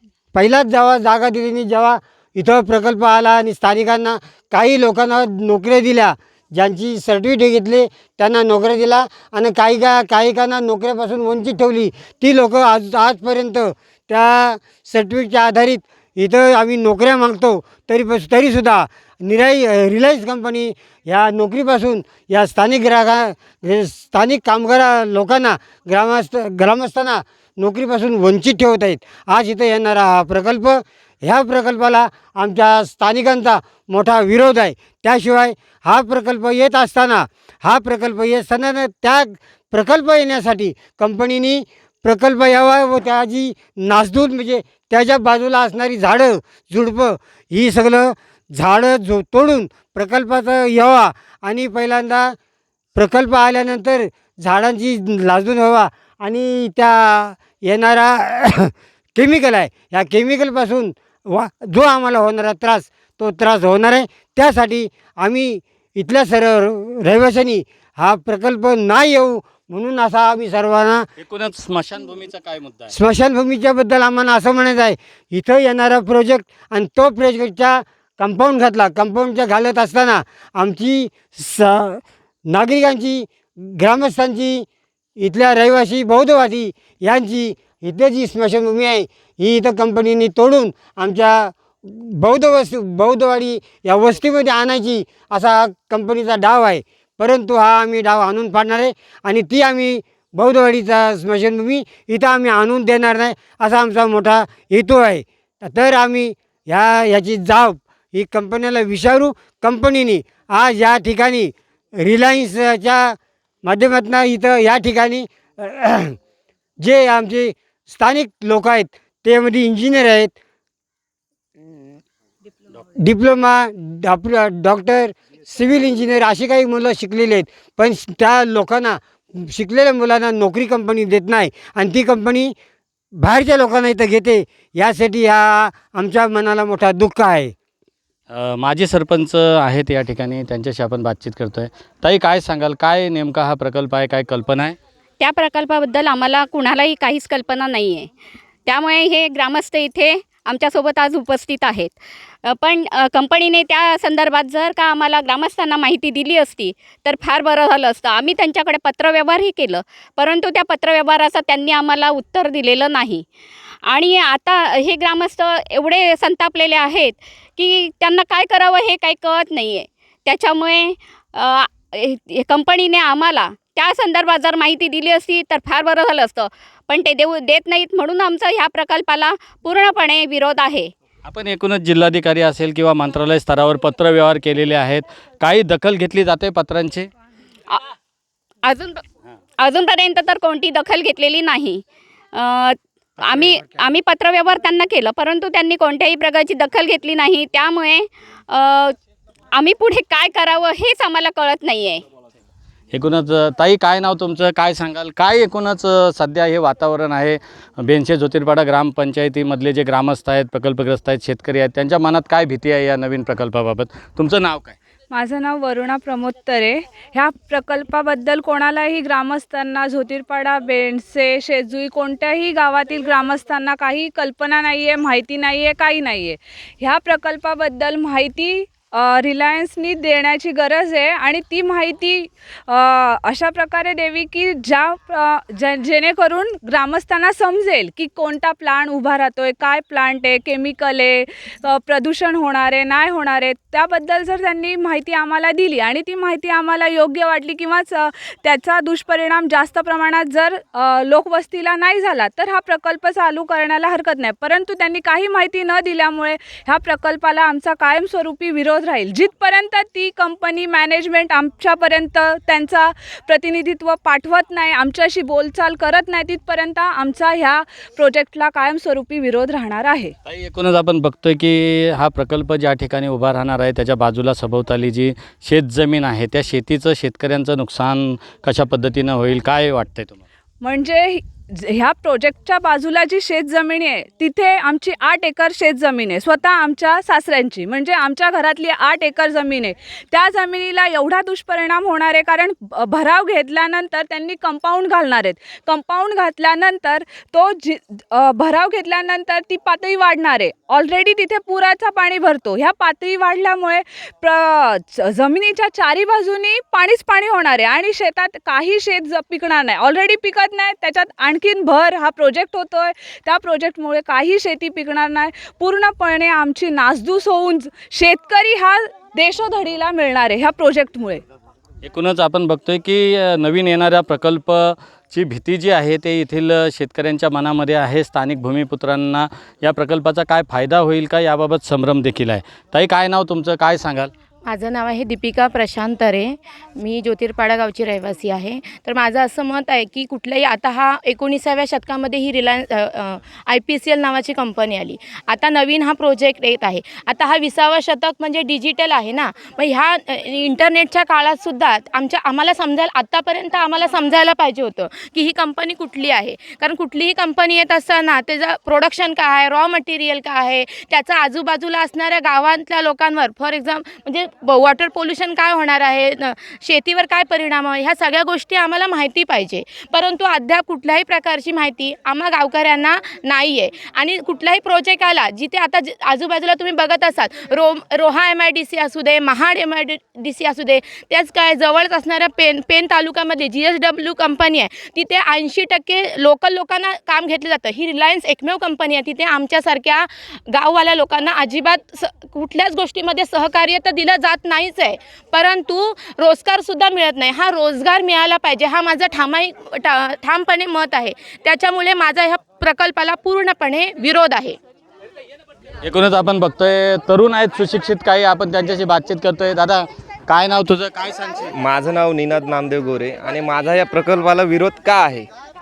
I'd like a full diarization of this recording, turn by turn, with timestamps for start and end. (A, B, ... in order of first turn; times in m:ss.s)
0:00.3-0:52.4 A
0:53.0-1:11.1 A
1:11.2-1:12.9 B
1:12.9-1:24.6 A
1:25.2-1:56.2 A
1:56.8-2:00.3 A
2:02.9-2:12.5 A
2:13.2-2:17.5 A
2:18.3-2:24.8 B
2:25.2-2:28.1 C
2:28.6-2:43.2 C
2:43.9-3:00.9 C
3:01.2-3:07.1 B
3:08.6-3:09.0 C
3:09.6-3:11.8 C
3:12.3-3:18.9 C
3:19.5-3:22.0 C
3:22.9-3:34.8 B
3:35.1-4:30.1 D
4:30.2-4:40.2 B
4:40.6-5:21.2 D
5:21.8-5:34.1 B
5:34.4-6:44.6 E
6:45.8-6:51.5 B
6:51.6-6:55.3 F